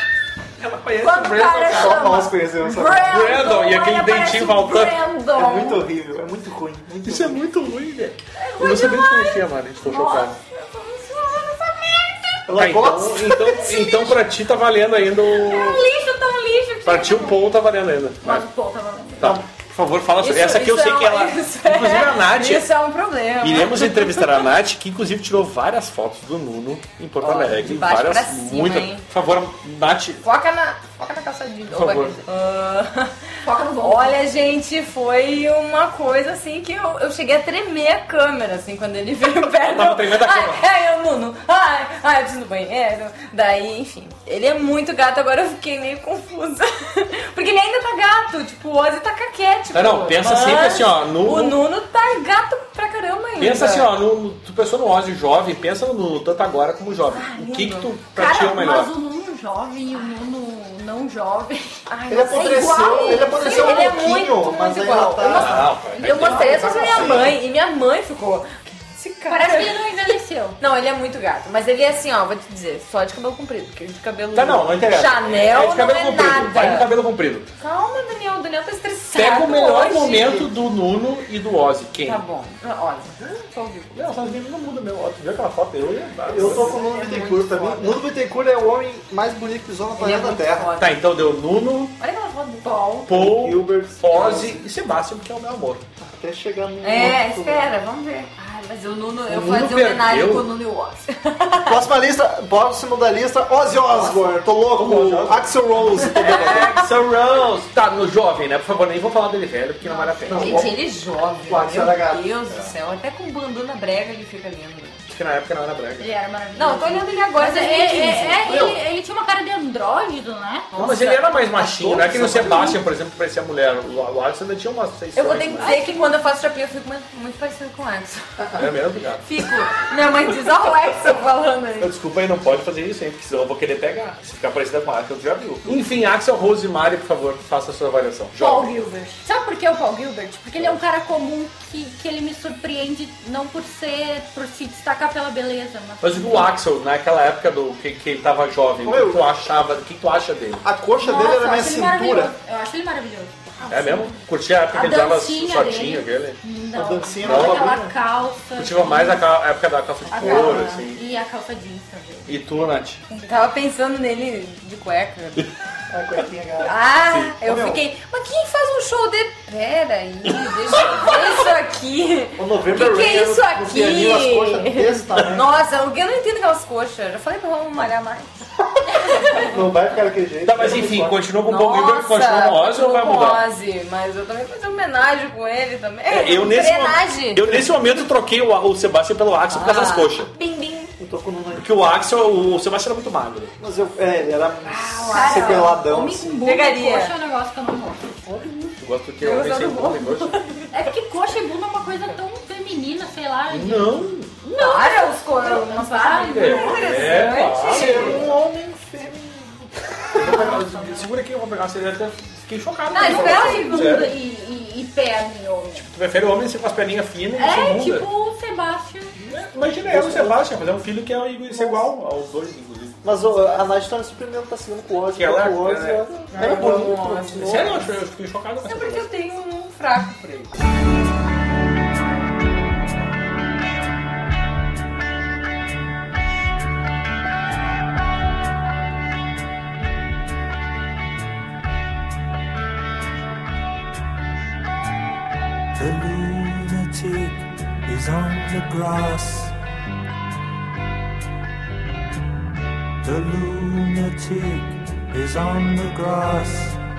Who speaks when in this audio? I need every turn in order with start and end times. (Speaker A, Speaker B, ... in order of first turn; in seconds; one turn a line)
Speaker A: 0.6-2.0
Speaker B: 1.0-5.7
Speaker C: 1.6-3.2
Speaker A: 3.1-5.0
Speaker C: 5.3-7.5
Speaker D: 5.5-5.8
Speaker A: 7.0-10.4
Speaker D: 8.4-12.2
Speaker C: 12.5-13.6
Speaker A: 12.6-15.9
Speaker D: 13.5-14.2
Speaker D: 15.3-17.4
Speaker A: 16.9-18.4
Speaker B: 18.2-19.4
Speaker A: 19.2-22.7
Speaker D: 20.2-24.5
Speaker A: 23.4-30.2
Speaker D: 27.2-29.1
Speaker D: 30.2-53.9
Speaker A: 31.7-32.2
Speaker B: 33.5-34.2
Speaker A: 39.6-40.6
Speaker A: 49.7-51.6
Speaker A: 53.4-58.9
Speaker D: 57.1-57.9
Speaker B: 58.1-63.9
Speaker D: 61.9-76.9
Speaker C: 62.1-65.7
Speaker B: 65.2-67.1
Speaker A: 65.2-67.3
Speaker C: 66.5-67.3
Speaker B: 69.3-70.6
Speaker A: 74.3-77.5
Speaker D: 77.6-80.5
Speaker A: 79.1-82.2
Speaker D: 82.0-84.1
Speaker A: 83.9-86.7
Speaker D: 86.3-88.0
Speaker C: 86.3-90.7
Speaker D: 90.0-91.1
Speaker A: 90.8-92.0
Speaker D: 92.0-93.0
Speaker B: 92.7-93.1
Speaker A: 93.1-95.8
Speaker C: 93.1-94.6
Speaker C: 96.0-97.7
Speaker D: 96.8-101.8
Speaker A: 99.3-100.5
Speaker C: 101.7-106.8
Speaker D: 103.9-104.3
Speaker A: 104.7-110.7
Speaker D: 106.0-106.9
Speaker B: 109.8-110.6
Speaker D: 110.2-115.0
Speaker C: 110.3-110.8
Speaker C: 111.5-112.3
Speaker A: 115.1-116.1
Speaker B: 116.0-120.7
Speaker D: 116.6-118.7
Speaker C: 118.5-118.8
Speaker D: 120.7-121.5
Speaker A: 120.8-125.7
Speaker C: 121.6-122.8
Speaker D: 125.2-128.7
Speaker B: 125.6-126.1
Speaker A: 128.6-129.2
Speaker D: 129.2-131.9
Speaker A: 131.8-138.7
Speaker B: 138.4-146.5
Speaker A: 146.0-150.6
Speaker C: 148.8-149.3
Speaker C: 150.6-152.3
Speaker B: 151.0-154.2
Speaker A: 153.7-156.4
Speaker B: 154.7-159.2
Speaker C: 156.8-157.9
Speaker A: 157.2-157.8
Speaker A: 158.6-161.0
Speaker B: 160.1-163.2
Speaker D: 160.2-160.8
Speaker C: 160.2-160.6
Speaker A: 162.3-163.0
Speaker D: 163.1-165.5
Speaker C: 165.9-166.8
Speaker D: 166.6-179.6
Speaker A: 167.1-167.3
Speaker C: 167.4-167.8
Speaker C: 172.4-175.5
Speaker C: 178.9-181.2
Speaker A: 180.4-183.4
Speaker D: 181.4-187.7
Speaker A: 186.1-190.3
Speaker D: 189.5-190.9
Speaker C: 191.0-191.9
Speaker A: 191.6-193.5
Speaker C: 193.6-196.4
Speaker D: 194.7-195.8
Speaker B: 195.1-198.2
Speaker D: 196.4-197.1
Speaker A: 198.7-200.4
Speaker D: 199.2-200.7
Speaker B: 200.7-208.0
Speaker A: 203.5-204.3
Speaker D: 204.5-208.3
Speaker A: 206.3-208.3
Speaker C: 207.7-210.6
Speaker A: 210.2-214.2
Speaker B: 210.2-211.1
Speaker D: 212.9-214.1
Speaker B: 212.9-215.9
Speaker A: 215.8-218.1
Speaker B: 217.3-219.2
Speaker A: 219.3-223.0
Speaker C: 219.8-220.5
Speaker C: 221.5-221.9
Speaker C: 223.0-227.8
Speaker A: 225.1-226.2
Speaker D: 226.3-227.9
Speaker A: 227.4-229.1
Speaker D: 228.6-230.5
Speaker E: 245.8-249.5
Speaker E: 253.0-256.8